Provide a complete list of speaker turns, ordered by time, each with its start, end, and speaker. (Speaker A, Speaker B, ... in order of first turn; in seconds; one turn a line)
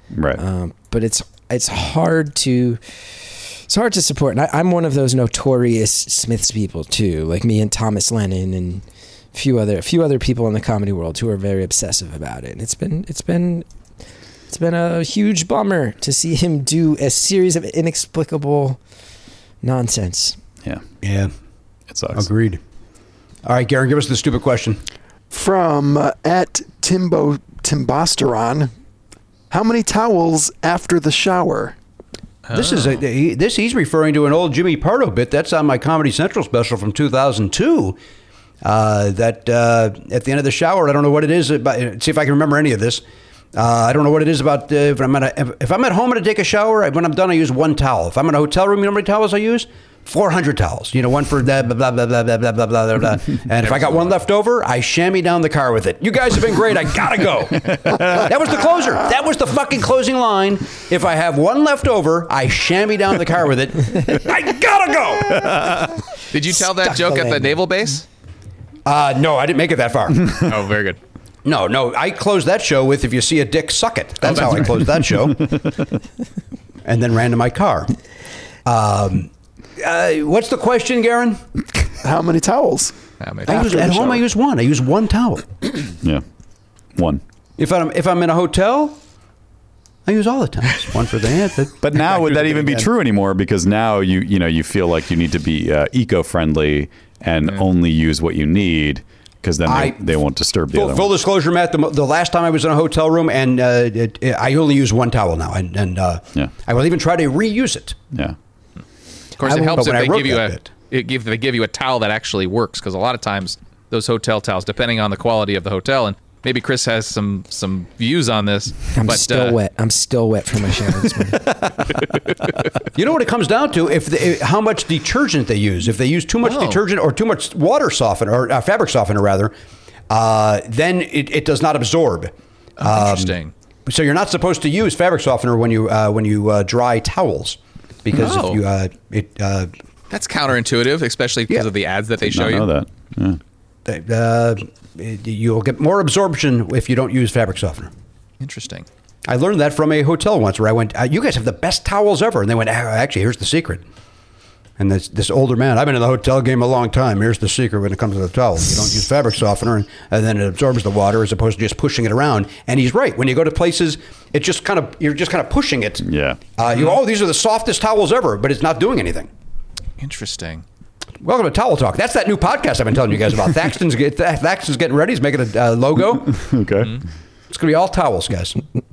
Speaker A: 0.1-0.4
Speaker B: 0.4-13.7
Speaker B: 14.5-18.8
Speaker B: 19.6-20.4
Speaker C: 21.0-21.3
Speaker A: 21.9-22.3
Speaker C: 22.1-22.6
Speaker C: 23.4-24.8
Speaker D: 25.3-28.7
Speaker D: 29.5-31.8
Speaker E: 32.5-33.0
Speaker C: 32.5-38.0
Speaker C: 38.6-43.0
Speaker C: 43.5-65.7
Speaker E: 53.6-54.1
Speaker E: 66.3-68.0
Speaker B: 66.5-67.6
Speaker C: 68.8-70.4
Speaker E: 70.4-71.0
Speaker C: 71.4-75.6
Speaker E: 74.2-74.8
Speaker C: 76.8-77.9
Speaker C: 78.7-81.4
Speaker D: 82.0-82.9
Speaker E: 83.2-83.9
Speaker C: 83.5-85.5
Speaker D: 83.5-83.9
Speaker A: 87.0-87.2
Speaker C: 87.6-89.0
Speaker C: 90.1-92.9
Speaker A: 91.8-101.1
Speaker C: 99.7-100.1
Speaker C: 100.7-108.0
Speaker E: 109.4-119.6
Speaker C: 109.4-110.7
Speaker B: 109.5-109.7
Speaker B: 118.9-121.5
Speaker C: 123.0-129.5
Speaker E: 126.4-126.8
Speaker C: 130.1-139.7
Speaker E: 132.8-133.5
Speaker E: 138.2-138.6
Speaker E: 140.1-142.7
Speaker A: 142.2-143.4
Speaker C: 143.8-147.9
Speaker E: 148.4-148.9
Speaker C: 149.3-153.8
Speaker C: 154.8-166.1
Speaker A: 166.0-166.4
Speaker C: 166.6-169.3
Speaker E: 170.0-170.7
Speaker C: 171.2-176.4
Speaker A: 176.3-177.0
Speaker C: 177.5-178.6